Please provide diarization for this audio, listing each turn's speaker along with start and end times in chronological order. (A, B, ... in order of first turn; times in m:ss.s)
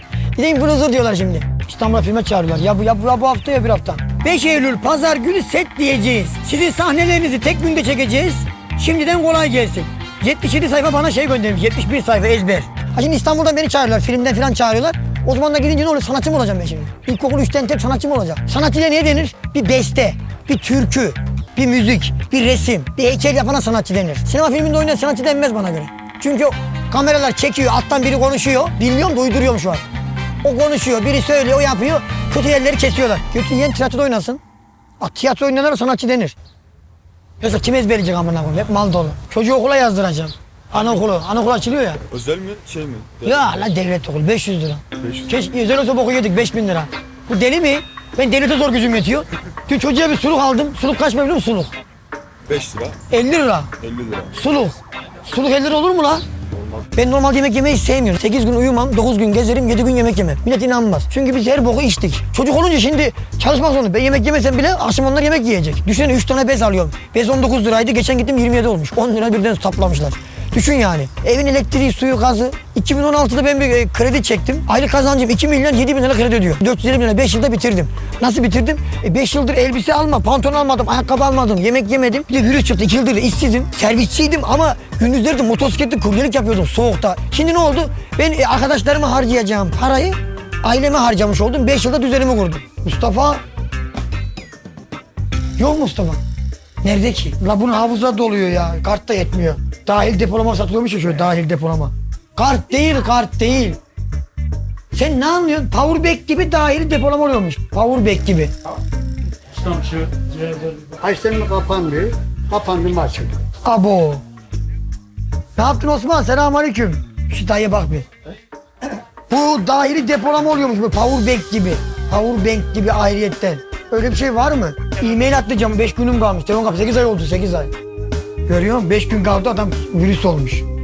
0:00.4-0:29.8 A
0:30.4-0:34.4 A
0:35.0-0:36.4 A
0:37.4-0:42.0 A
0:42.1-0:43.2 B
0:43.2-0:51.7 A
0:52.5-0:52.9 B
0:53.1-0:53.7 A
0:53.8-0:54.2 B
0:54.3-0:56.2 A
0:56.9-1:33.4 A
1:35.6-1:36.2 A
1:36.8-1:43.8 A
1:44.9-1:48.5 A
1:49.6-1:53.4 C
1:53.6-1:54.2 A
1:55.6-1:58.1 A
1:59.3-2:07.7 A
2:08.5-2:10.6 A